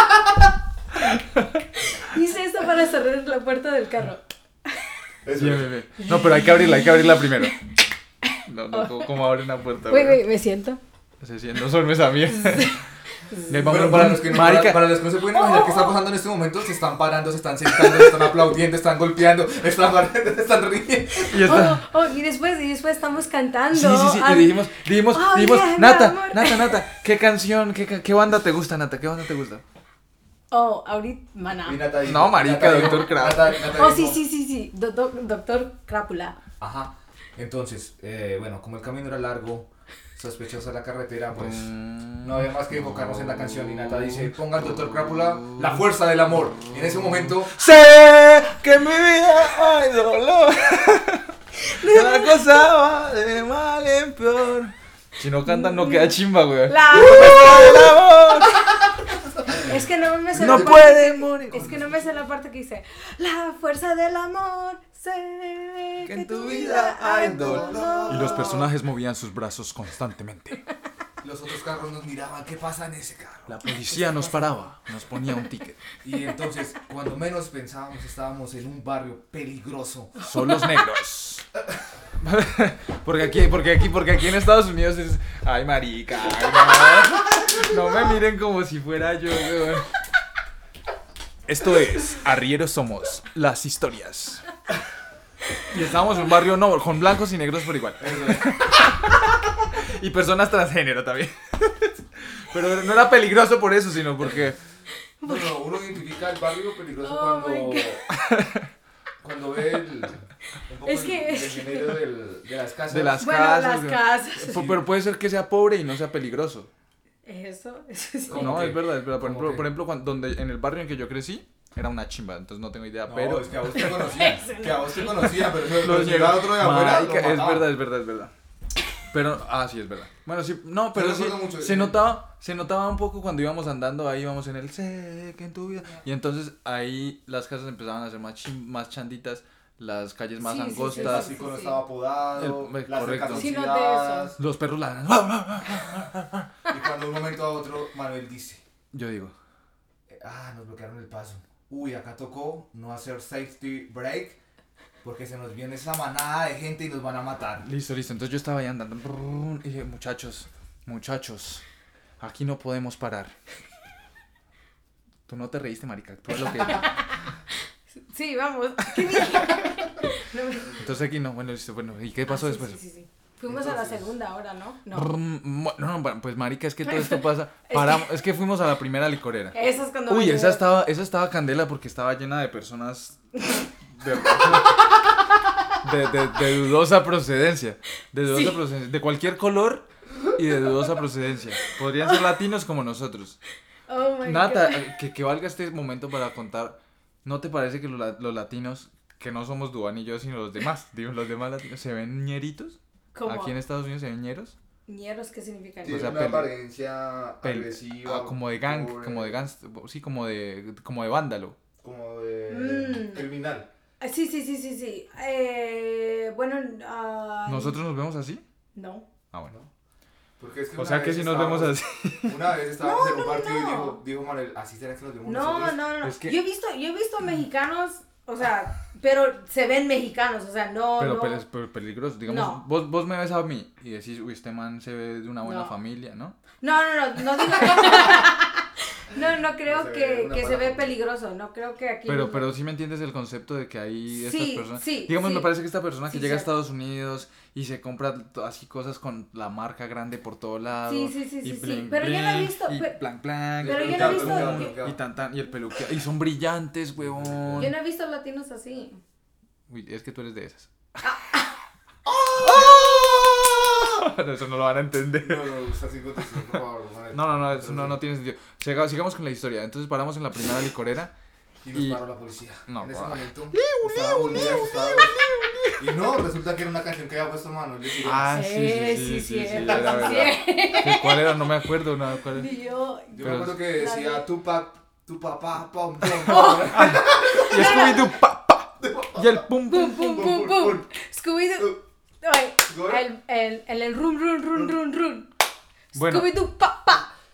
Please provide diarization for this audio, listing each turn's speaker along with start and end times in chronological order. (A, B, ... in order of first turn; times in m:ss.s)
0:01.0-0:01.6 A
0:02.0-0:04.9 B
0:05.2-0:05.7 C
0:05.4-0:07.6 A
0:06.0-0:06.9 B
0:08.4-0:10.2 A
0:08.7-0:09.3 B
0:09.9-0:10.8 B
0:11.2-0:12.8 A
0:12.4-0:12.8 B
0:13.3-0:13.6 B
0:13.5-0:15.0 A
0:13.6-0:21.7 C
0:15.2-0:16.0 B
0:21.3-0:21.8 A
0:21.4-0:26.8 B
0:23.7-0:29.6 A
0:30.5-0:31.9 B
0:31.6-0:34.2 C
0:32.0-0:33.7 A
0:33.6-0:36.4 B
0:36.6-0:41.7 C
0:41.4-0:45.7 A
0:42.2-0:47.5 C
0:46.6-0:58.6 A
0:51.6-0:52.6 B
0:55.5-0:58.0 B
0:59.6-1:08.6 B
1:00.3-1:01.8 A
1:00.4-1:00.8 C
1:06.0-1:10.6 A
1:06.9-1:08.7 C
1:11.2-1:13.5 C
1:13.5-1:15.8 A
1:16.0-1:20.2 C
1:20.2-1:21.4 A
1:22.2-1:29.9 A
1:31.5-1:34.5 A
1:35.6-1:44.6 A
1:38.0-1:38.5 C
1:45.2-1:45.6 B
1:45.2-1:48.0 C
1:47.0-1:48.0 B
1:48.2-1:48.6 A
1:49.2-1:53.2 C
1:50.8-1:52.0 B
1:52.9-1:56.7 A
1:53.2-1:54.8 B
1:57.2-1:58.7 B
1:58.3-1:59.7 C
1:58.3-2:03.8 A
2:03.1-2:07.7 C
2:03.7-2:05.3 B
2:05.6-2:08.3 A
2:09.1-2:21.3 A
2:10.9-2:12.0 C
2:20.4-2:21.8 B
2:20.9-2:24.4 C
2:22.3-2:23.5 A
2:23.2-2:24.4 B
2:24.4-2:26.5 A
2:26.7-2:28.6 C
2:28.9-2:29.4 A
2:30.1-2:34.4 C
2:35.0-2:37.7 C
2:37.6-2:41.6 A
2:42.2-2:43.3 A
2:45.3-2:47.0 A
2:46.6-2:47.2 B
2:47.9-2:50.9 B
2:50.7-2:52.8 A
2:52.3-2:55.1 B
2:53.5-2:54.0 C
2:54.9-2:59.6 A
2:56.9-2:58.1 B
2:59.5-3:00.6 B
3:00.1-3:03.2 A
3:03.9-3:04.9 A
3:05.8-3:13.4 A
3:08.3-3:08.6 B
3:13.9-3:14.9 B
3:14.2-3:24.6 A
3:23.1-3:23.5 B
3:24.9-3:26.1 B
3:25.8-3:26.5 A
3:25.8-3:29.4 C
3:27.4-3:31.6 A
3:31.8-3:33.7 C
3:32.5-3:33.3 B
3:34.0-3:37.8 B
3:37.5-3:38.4 A
3:38.8-3:39.1 B
3:40.4-3:45.9 C
3:40.8-3:42.6 A
3:42.8-3:44.0 B
3:45.2-3:51.4 B
3:46.0-3:46.4 A
3:51.0-3:56.4 A
3:52.3-3:52.6 B
3:55.4-3:55.8 B
3:56.6-4:02.6 B
3:59.7-4:01.0 C
4:02.1-4:17.7 A
4:04.1-4:06.5 B
4:10.8-4:13.0 B
4:13.6-4:14.8 B
4:13.6-4:15.0 C
4:17.0-4:17.7 C
4:17.6-4:19.0 B
4:19.7-4:20.7 A
4:21.0-4:21.5 B
4:22.1-4:25.4 A
4:25.1-4:28.0 C
4:27.1-4:31.1 A
4:31.6-4:35.2 C
4:31.7-4:32.0 A
4:32.7-4:35.9 A
4:35.8-4:38.4 C
4:38.0-4:42.5 A
4:38.3-4:41.5 B
4:39.6-4:40.3 C
4:42.2-4:44.3 B
4:43.1-4:47.9 C
4:43.2-4:43.7 A
4:46.1-4:50.4 A
4:46.2-4:48.1 B
4:48.8-4:49.4 C
4:49.7-4:55.3 B
4:50.1-4:50.9 C
4:52.7-4:53.0 C
4:55.9-4:57.1 B
4:55.9-4:56.4 A